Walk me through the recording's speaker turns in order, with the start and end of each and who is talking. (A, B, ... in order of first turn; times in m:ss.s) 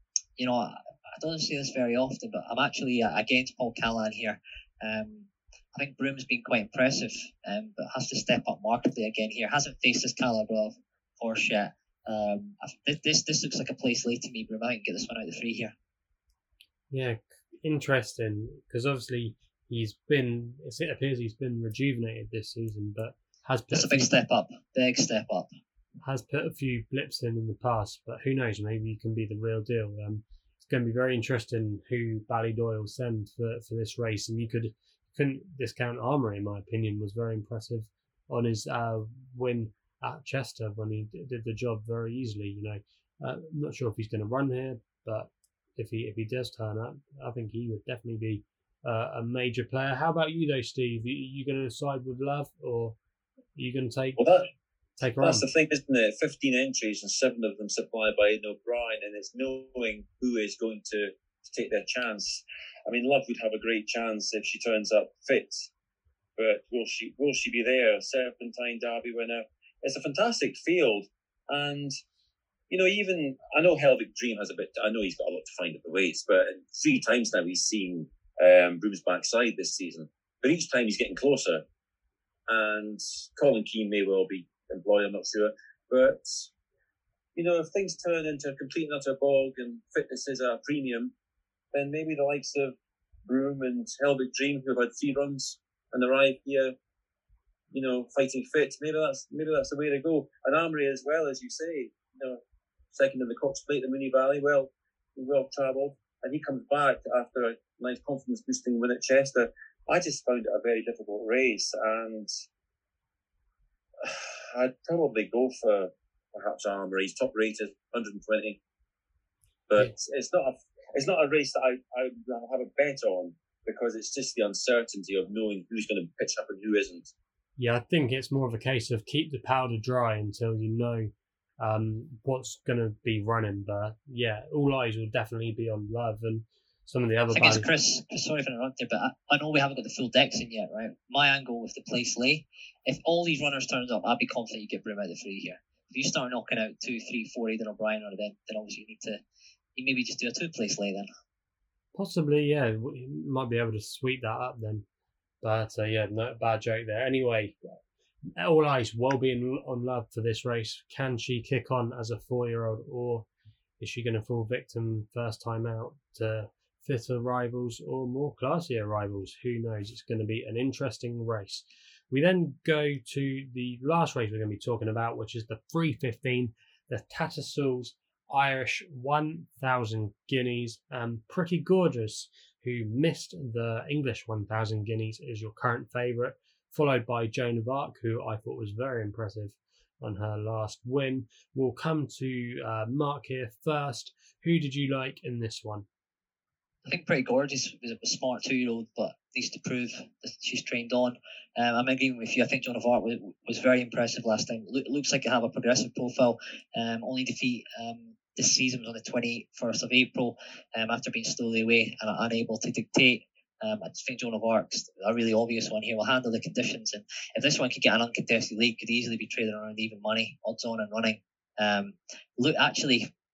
0:00.4-0:15.7 A
0:16.9-0:24.1 B
0:23.7-0:25.5 A
0:26.0-0:53.0 B
0:53.5-0:54.2 B
0:54.2-0:54.5 C
0:55.0-0:55.4 B
0:55.2-1:05.6 C
1:06.4-1:11.9 C
1:12.7-1:21.6 C
1:22.5-1:26.5 C
1:27.3-1:31.1 C
1:31.7-1:32.7 C
1:33.2-1:36.7 C
1:37.7-1:42.4 C
1:42.9-1:52.3 C
1:54.0-1:58.6 C
1:59.7-2:07.1 C
2:07.6-2:17.7 B
2:17.3-2:29.2 A
2:29.8-2:31.1 A
2:31.9-2:34.8 B
2:35.4-2:37.6 B
2:38.4-2:43.2 B
2:43.8-3:15.8 B
3:16.8-3:43.1 A